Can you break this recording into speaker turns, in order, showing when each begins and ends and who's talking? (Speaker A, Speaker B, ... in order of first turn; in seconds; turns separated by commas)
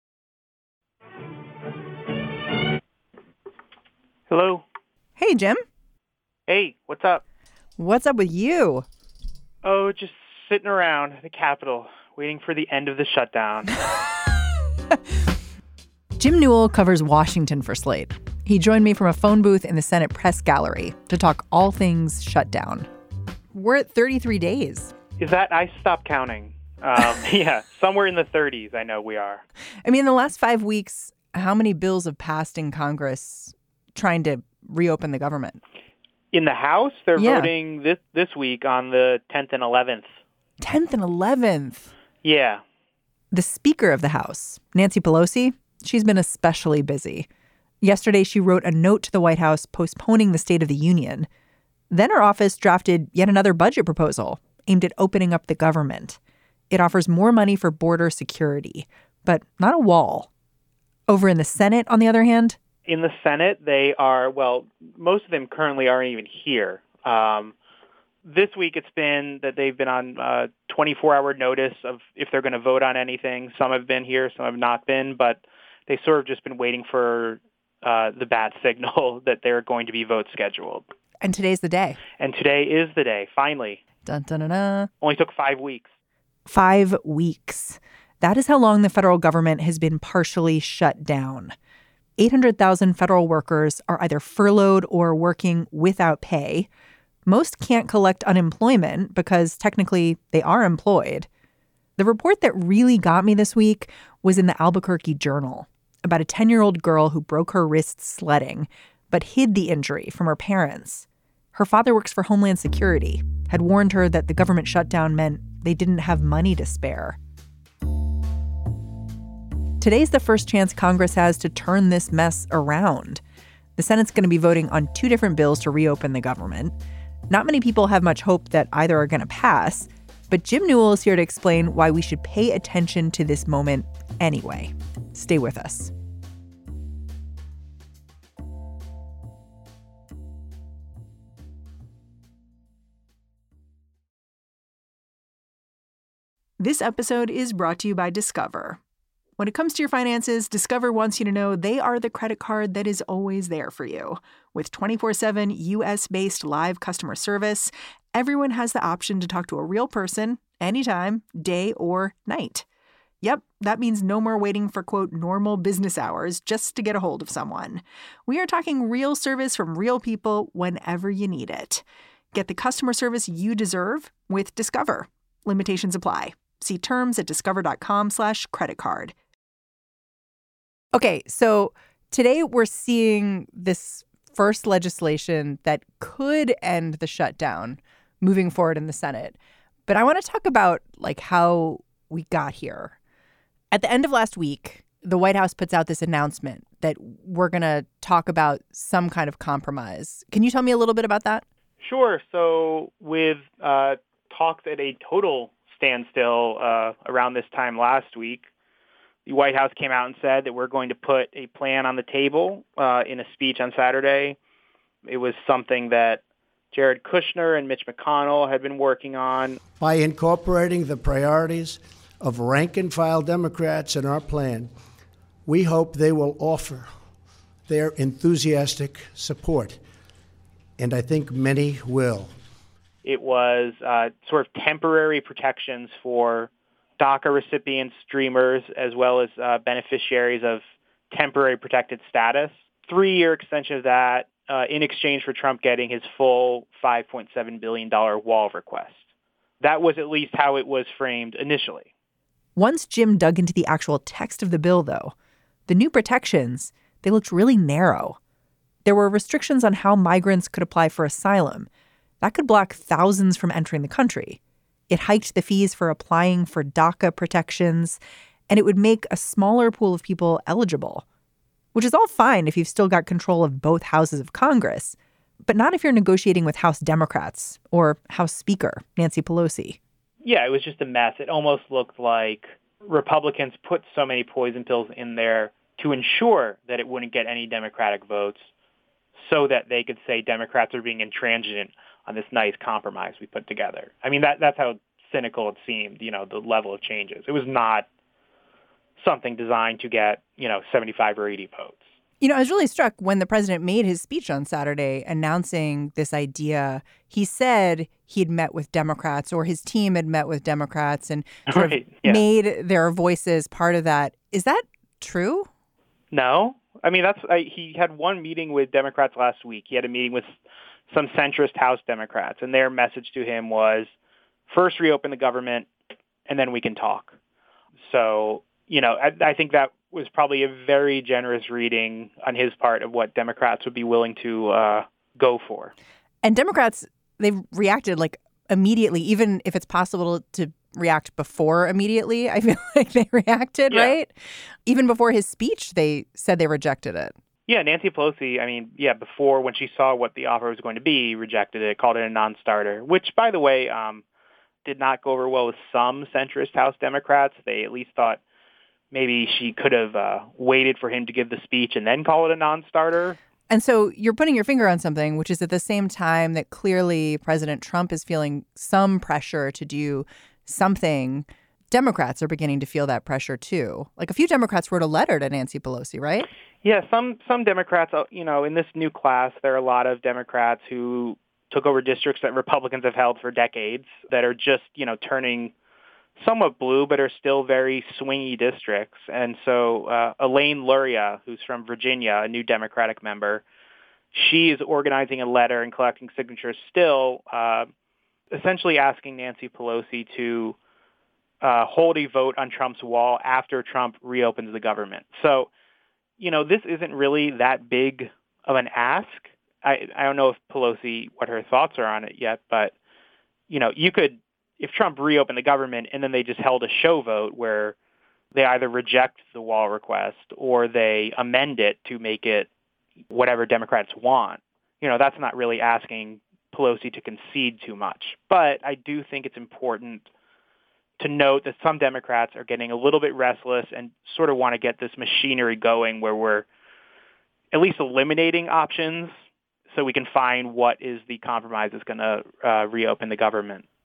Speaker A: 4.3-4.6, Speaker B: 5.2-5.6, Speaker A: 6.5-7.2, Speaker B: 7.8-8.8, Speaker A: 9.6-13.8, Speaker B: 16.2-22.9, Speaker B: 23.5-24.9, Speaker A: 25.2-29.4, Speaker B: 29.8-35.6, Speaker A: 36.3-40.1, Speaker B: 37.1-37.5, Speaker B: 40.6-41.9, Speaker A: 42.2-42.6, Speaker B: 43.3-47.3, Speaker B: 47.8-51.3, Speaker B: 51.9-56.2, Speaker B: 56.7-60.3, Speaker B: 61.1-62.6, Speaker A: 62.9-67.5, Speaker A: 68.2-80.8, Speaker B: 81.2-82.0, Speaker A: 82.2-83.8, Speaker B: 84.0-84.9, Speaker A: 85.0-85.9, Speaker B: 86.5-91.5, Speaker B: 92.2-96.7, Speaker B: 97.3-101.3, Speaker B: 102.0-117.2, Speaker B: 119.8-123.2, Speaker B: 123.8-126.7, Speaker B: 127.3-135.9, Speaker B: 146.6-148.8, Speaker B: 149.4-162.7, Speaker B: 163.2-179.1, Speaker B: 180.9-192.9, Speaker B: 193.7-201.4, Speaker A: 201.8-208.5, Speaker A: 209.2-214.4, Speaker A: 215.0-219.6, Speaker C: 219.8-224.7, Speaker C: 225.4-226.9, Speaker C: 227.7-229.8, Speaker C: 230.8-232.3, Speaker A: 233.0-249.0, Speaker A: 249.6-251.9, Speaker B: 252.6-255.1, Speaker B: 255.7-258.2, Speaker B: 258.8-261.7, Speaker B: 262.2-271.0, Speaker B: 271.7-279.8, Speaker A: 280.2-288.5, Speaker A: 289.1-297.9, Speaker A: 299.0-301.8, Speaker B: 302.2-315.5, Speaker A: 311.5-312.2, Speaker A: 316.1-320.4, Speaker A: 320.9-323.9, Speaker A: 324.5-325.7, Speaker A: 326.3-327.1, Speaker A: 327.8-335.7, Speaker B: 336.2-344.1, Speaker A: 343.7-344.0, Speaker B: 344.6-347.1, Speaker A: 347.5-354.0, Speaker A: 354.6-358.2, Speaker A: 358.9-363.2, Speaker B: 363.5-376.3, Speaker A: 376.6-385.5, Speaker A: 386.2-393.4, Speaker A: 394.1-397.7, Speaker A: 398.3-400.6, Speaker A: 401.4-405.5, Speaker A: 406.2-412.7, Speaker A: 413.5-417.8, Speaker A: 418.3-422.5, Speaker A: 423.1-430.1, Speaker A: 431.0-436.5, Speaker A: 437.5-439.1, Speaker A: 439.7-443.6